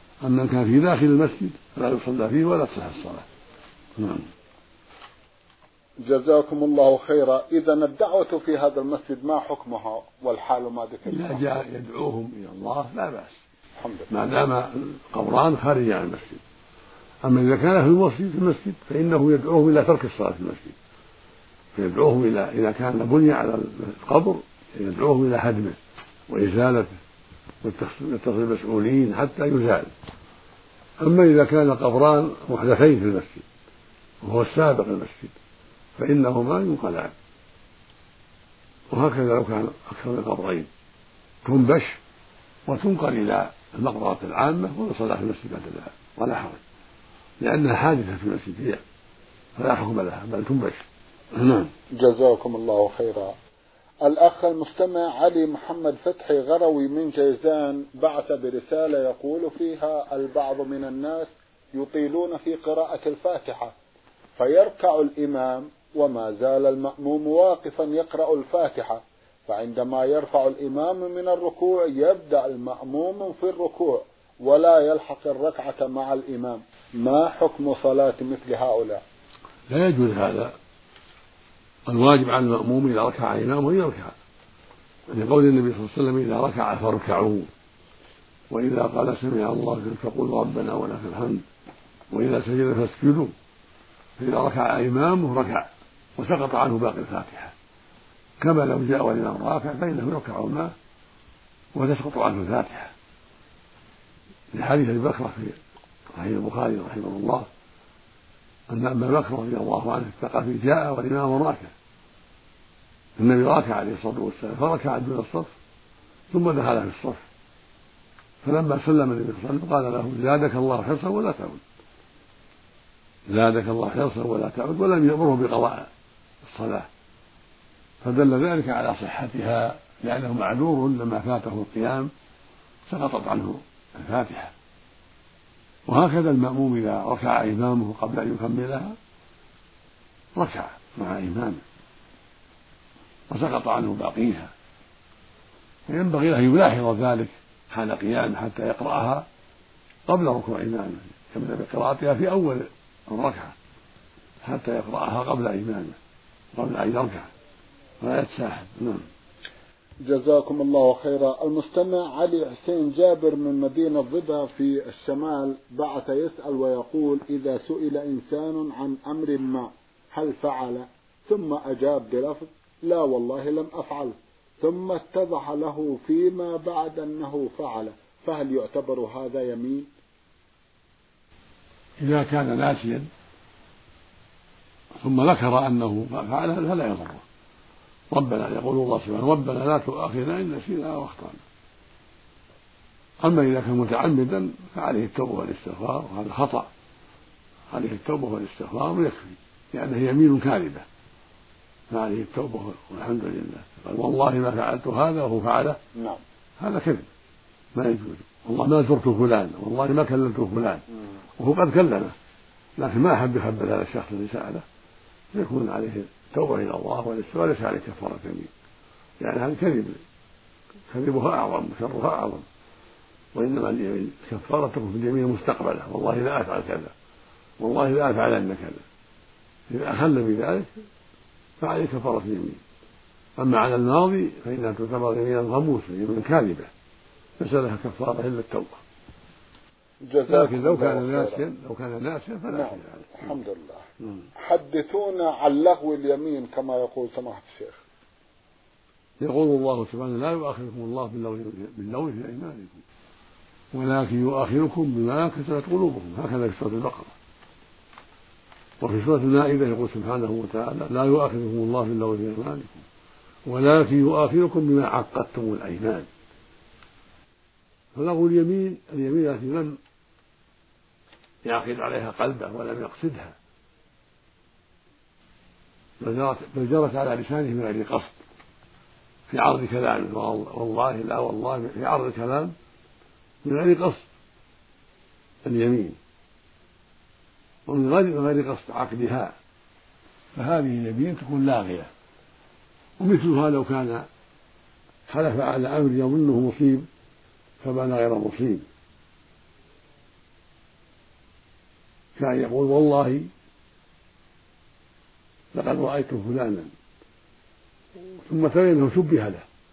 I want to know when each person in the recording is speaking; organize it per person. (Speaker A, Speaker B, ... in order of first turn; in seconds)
Speaker A: 0.2-3.2, 4.0-4.3, 11.1-13.4, 14.1-16.4, 17.2-20.8, 21.7-27.0, 27.6-29.9, 31.0-33.4, 34.2-35.4, 36.0-37.1, 38.9-40.7, 41.4-42.0, 42.7-46.6, 47.4-48.8, 49.6-51.7, 79.7-80.5, 81.9-84.1, 85.1-87.5, 88.5-91.4, 92.1-93.3, 94.2-97.5, 98.4-100.7, 101.7-102.9, 104.5-105.6, 106.1-107.5, 108.7-111.7, 113.2-115.5, 116.3-117.2, 118.4-121.6, 123.3-125.9, 126.4-126.9, 128.0-132.1, 132.9-134.5, 135.8-138.9, 140.3-141.6, 143.3-144.5, 145.9-149.2, 150.1-153.6, 154.4-156.0, 156.5-157.3, 158.0-159.0, 182.0-183.1, 185.0-187.2, 188.1-191.4, 193.2-196.7, 197.7-200.8, 201.9-205.8, 206.6-207.1, 207.7-210.8, 211.4-212.1, 212.8-214.6, 215.3-218.5, 219.2-220.0, 220.9-222.4, 223.3-226.9, 227.6-228.8, 229.7-230.7, 231.6-232.6, 233.4-236.7, 237.4-238.8, 240.3-243.3, 244.0-244.2, 249.2-252.8, 253.7-257.1, 258.8-262.8, 263.4-266.1, 267.9-269.8, 271.4-273.4, 276.0-278.2, 279.3-282.5, 283.4-284.1, 285.4-286.0, 287.6-289.3, 290.3-291.9, 293.0-294.1, 295.1-296.9, 297.6-298.7, 302.2-303.3, 305.5-306.7, 307.9-309.4
Speaker B: 6.0-11.6, 13.8-14.1, 52.0-53.3, 54.0-63.7, 64.4-79.0, 160.1-179.9, 205.9-206.2, 240.1-241.4, 242.5-243.8, 244.4-247.8